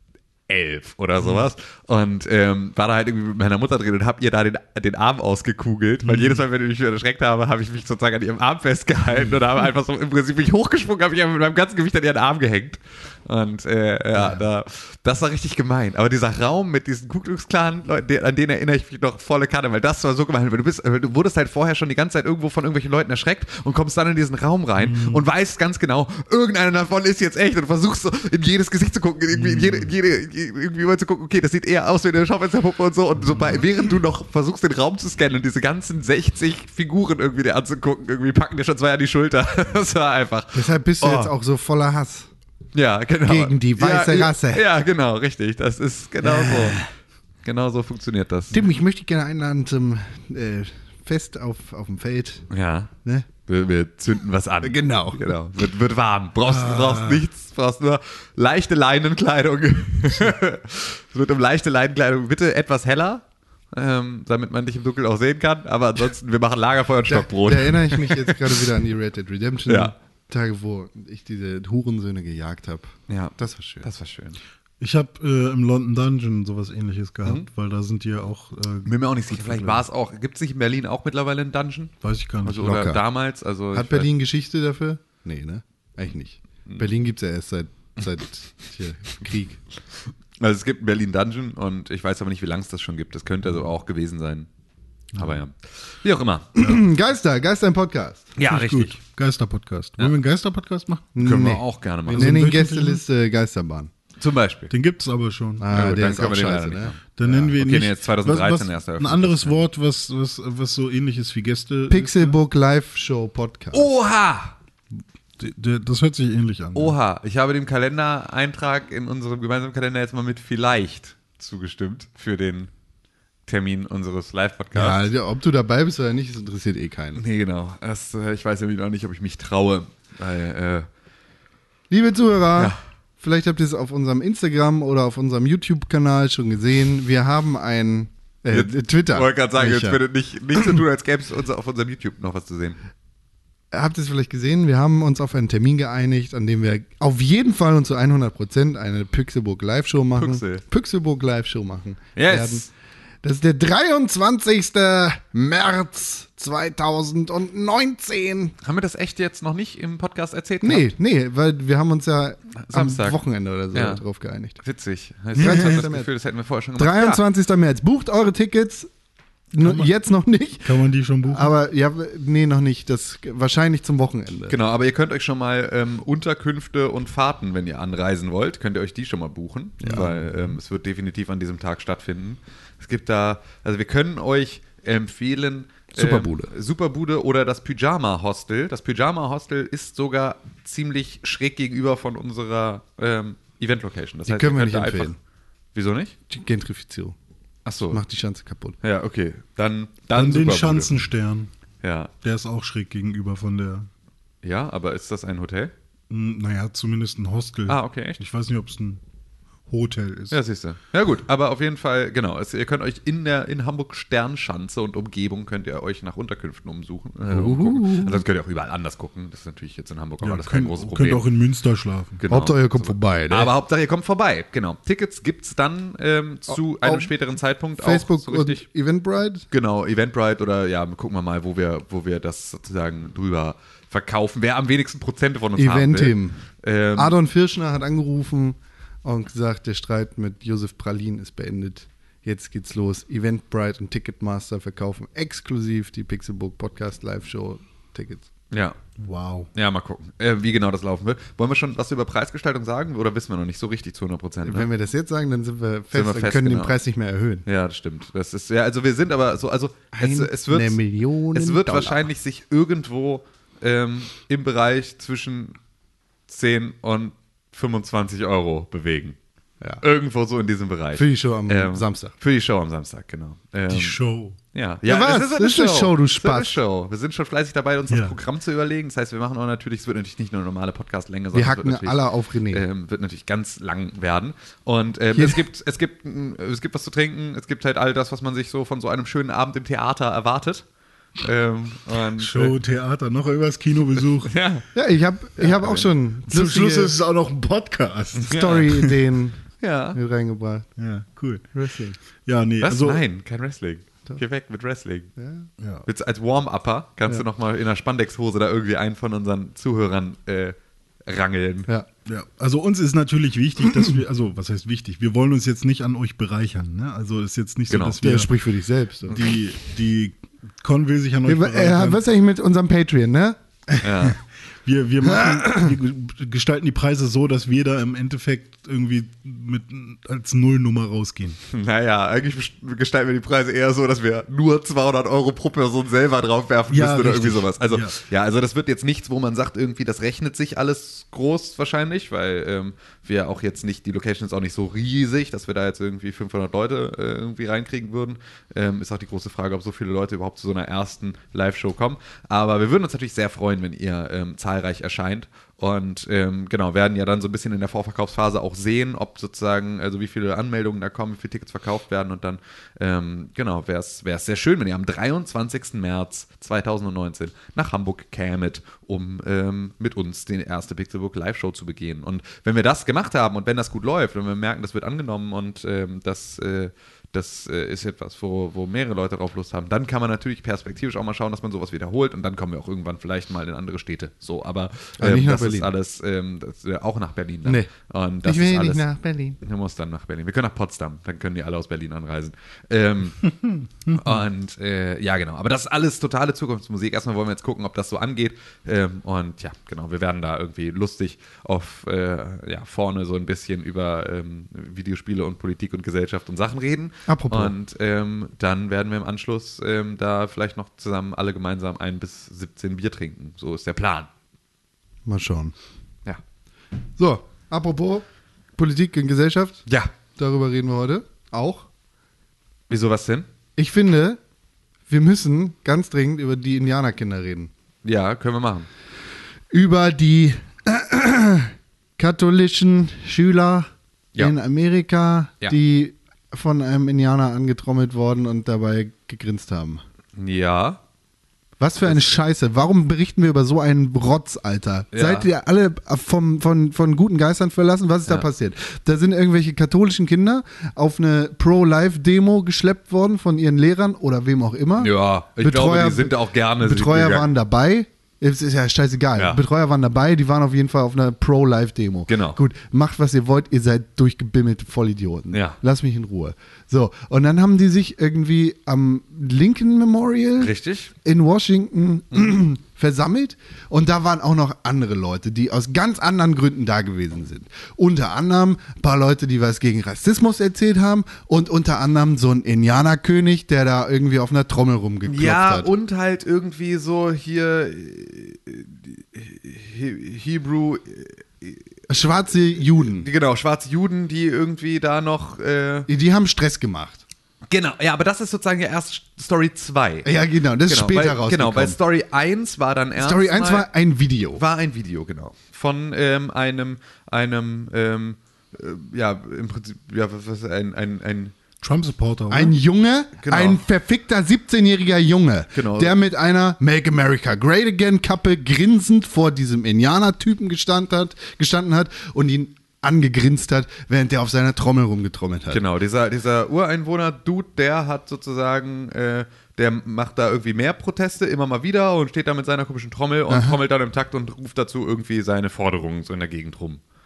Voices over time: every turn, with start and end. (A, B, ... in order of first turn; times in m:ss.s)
0:00.5-0:41.3 A
0:01.2-0:01.5 B
0:06.0-0:06.4 B
0:24.8-0:25.2 B
0:29.3-0:29.9 B
0:40.5-0:42.3 C
0:42.7-0:46.8 A
0:43.2-0:44.6 C
0:46.2-0:46.9 C
0:47.4-0:48.6 A
0:48.5-0:52.5 C
0:52.5-0:52.9 A
0:53.4-1:08.6 A
0:54.6-0:55.3 C
0:56.5-0:57.2 C
1:07.1-1:13.9 C
1:09.7-1:09.9 A
1:13.1-1:14.4 A
1:14.8-1:19.8 B
1:18.8-1:24.1 A
1:22.0-1:22.7 B
1:22.6-1:23.0 C
1:23.7-1:29.6 C
1:30.4-1:34.5 A
1:35.1-1:35.4 B
1:35.2-1:36.5 A
1:36.6-1:38.3 C
1:38.4-1:39.0 A
1:38.4-1:41.1 B
1:41.2-1:43.9 C
1:41.2-1:42.5 A
1:42.1-1:43.0 B
1:44.2-1:44.7 A
1:44.7-1:45.7 B
1:45.6-1:47.1 C
1:45.7-1:49.6 A
1:47.2-1:52.4 B
1:51.9-1:53.9 C
1:53.7-1:54.6 A
1:55.4-1:57.0 B
1:56.8-2:02.7 A
2:03.5-2:05.1 A
2:04.7-2:07.2 C
2:07.2-2:10.9 A
2:11.9-2:20.0 C
2:18.5-2:22.8 A
2:20.5-2:20.8 C
2:23.7-2:32.7 C
2:30.2-2:30.6 A
2:32.2-2:32.7 A
2:33.2-2:38.6 C
2:38.6-2:40.9 A
2:40.6-2:44.6 C
2:42.6-2:43.2 A
2:43.7-2:44.0 A
2:44.6-2:47.2 A
2:45.4-2:45.8 B
2:45.4-2:46.1 C
2:46.8-2:48.9 C
2:49.5-2:54.6 C
2:49.6-2:49.9 B
2:50.6-2:51.5 B
2:54.5-3:15.1 A
2:59.8-3:00.1 C
3:00.0-3:00.5 B
3:05.9-3:06.5 C
3:14.3-3:15.2 C
3:15.8-3:16.2 A
3:16.3-3:17.2 C
3:17.7-3:18.0 A
3:17.9-3:18.8 C
3:18.8-3:21.0 A
3:20.1-3:21.5 B
3:21.8-3:22.1 A
3:22.2-3:23.9 B
3:24.4-3:25.7 A
3:26.1-3:29.0 B
3:27.7-3:28.2 A
3:29.7-3:30.4 B
3:30.3-3:41.2 A
3:37.3-3:38.2 C
3:40.2-3:42.2 B
3:42.2-3:48.6 A
3:42.3-3:43.5 C
3:46.5-3:47.1 C
3:47.8-3:49.5 C
3:49.5-3:57.2 A
3:55.6-3:56.4 C
3:57.0-4:08.3 C
4:08.5-4:08.8 A
4:09.0-4:09.5 B
4:09.5-4:14.7 A
4:14.4-4:17.4 C
4:15.9-4:16.7 A
4:17.5-4:20.8 A
4:19.9-4:22.1 C
4:21.3-4:25.6 A
4:26.3-4:29.2 A
4:29.8-4:34.0 A
4:31.0-4:32.1 C
4:33.7-4:34.4 B
4:34.5-4:50.6 A
4:34.8-4:36.6 C
4:37.9-4:38.2 B
4:41.3-4:42.6 C
4:45.1-4:45.4 C
4:51.2-4:52.6 A
4:52.2-4:54.3 B
4:54.2-4:54.6 A
4:54.8-4:57.0 C
4:55.4-4:55.9 A
4:56.3-4:59.0 B
4:58.2-4:58.7 A
4:58.2-5:00.7 C
4:59.6-5:00.0 A
5:00.8-5:01.5 B
5:01.5-5:02.0 C
5:02.2-5:03.0 B
5:02.6-5:05.1 A
5:05.2-5:05.5 C
5:05.6-5:05.8 B
5:05.9-5:11.7 A
5:12.1-5:18.3 B
5:17.7-5:18.0 A
5:18.0-5:19.2 C
5:19.1-5:22.0 B
5:21.3-5:23.9 C
5:23.8-5:24.2 A
5:24.6-5:31.4 B
5:25.1-5:25.7 C
5:31.5-6:28.8 A
5:36.7-5:38.0 B
6:25.0-6:25.7 C
6:27.4-6:27.7 C
6:28.2-6:29.4 C
6:29.4-6:33.3 A
6:33.4-6:34.0 B
6:33.9-6:54.1 A
6:47.1-6:47.5 C
6:55.1-6:55.5 C
6:57.0-6:58.0 C
6:58.6-6:59.6 C
7:00.2-7:01.7 C
7:02.7-7:03.3 A
7:03.6-7:04.2 C
7:04.9-7:07.5 C
7:07.8-7:08.7 A
7:09.5-7:19.8 C
7:20.2-7:20.8 A
7:21.6-7:50.5 C
7:24.9-7:25.3 A
7:34.8-7:37.3 A
7:39.2-7:39.4 A
7:42.1-7:42.4 A
7:45.3-7:45.6 A
7:50.4-7:50.9 A
7:51.0-8:05.7 C
8:05.1-8:11.7 A
8:11.9-8:13.1 C
8:12.8-8:15.9 A
8:15.9-8:17.0 C
8:17.5-8:20.1 A
8:20.0-8:21.8 C
8:20.7-8:23.7 A
8:23.0-8:24.4 C
8:24.4-8:31.4 A
8:31.6-8:32.6 B
8:32.3-8:45.6 C
8:33.2-8:33.6 A
8:35.5-8:35.9 A
8:45.5-8:56.8 A
8:53.3-8:53.6 C